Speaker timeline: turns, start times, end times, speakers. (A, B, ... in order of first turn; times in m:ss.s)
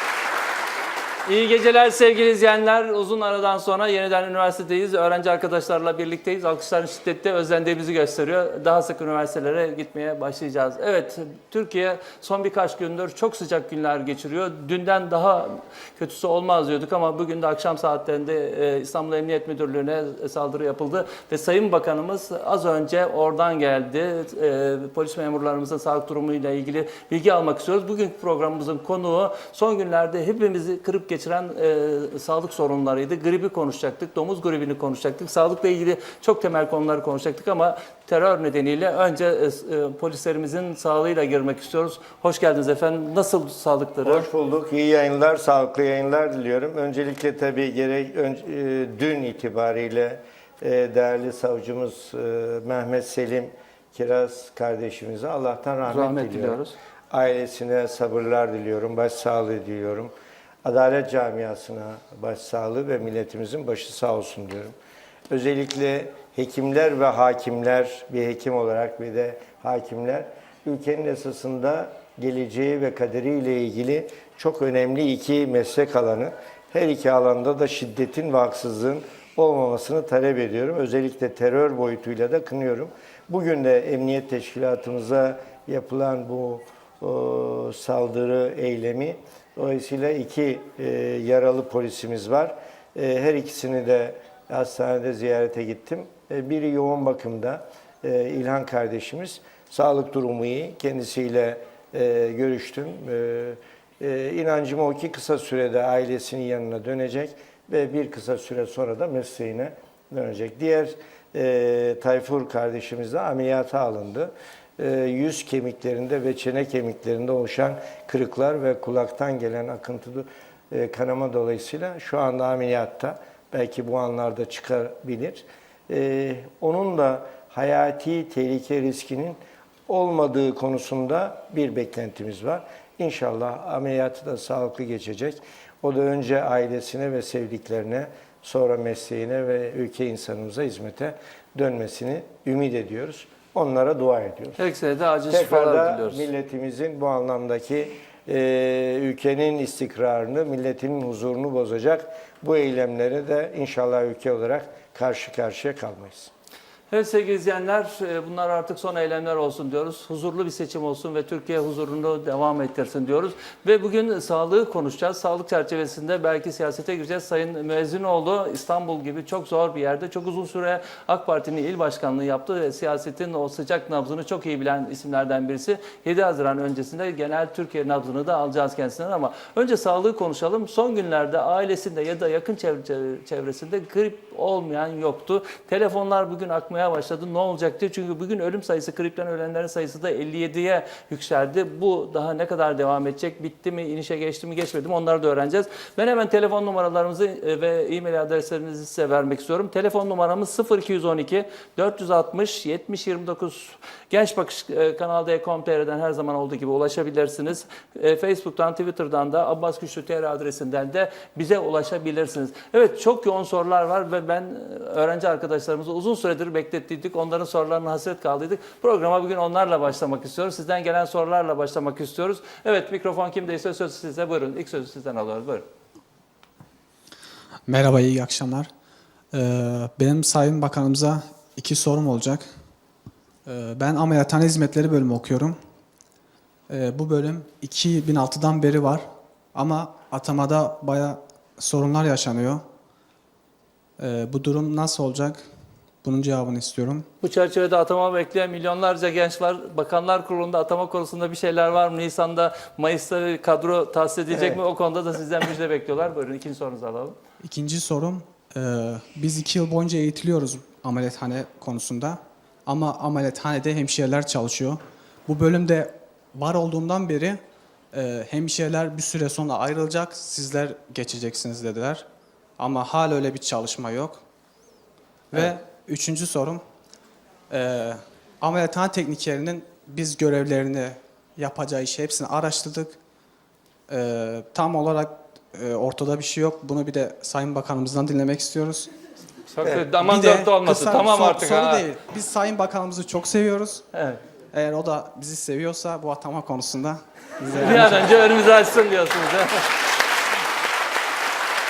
0:01.2-0:44.3 A
0:44.0-0:56.6 B
0:55.8-0:56.7 A
0:57.1-1:00.1 B
1:00.6-1:04.7 B
1:05.3-2:24.6 B
2:24.6-2:26.3 A
2:25.3-2:36.3 B
2:36.9-3:45.6 A
3:47.7-3:48.7 C
3:49.3-3:52.5 C
3:53.5-3:55.6 C
3:56.7-4:02.6 C
4:04.0-4:05.4 C
4:06.0-4:07.0 C
4:07.2-4:17.2 A
4:14.3-4:14.6 B
4:17.4-4:27.4 C
4:27.9-4:32.0 C
4:32.6-4:34.2 C
4:35.3-4:36.6 C
4:37.5-4:43.0 C
4:43.9-4:48.9 C
4:49.5-4:51.9 A
4:50.0-4:53.8 C
4:53.9-4:54.2 A
4:54.5-4:58.1 C
4:57.6-4:59.7 A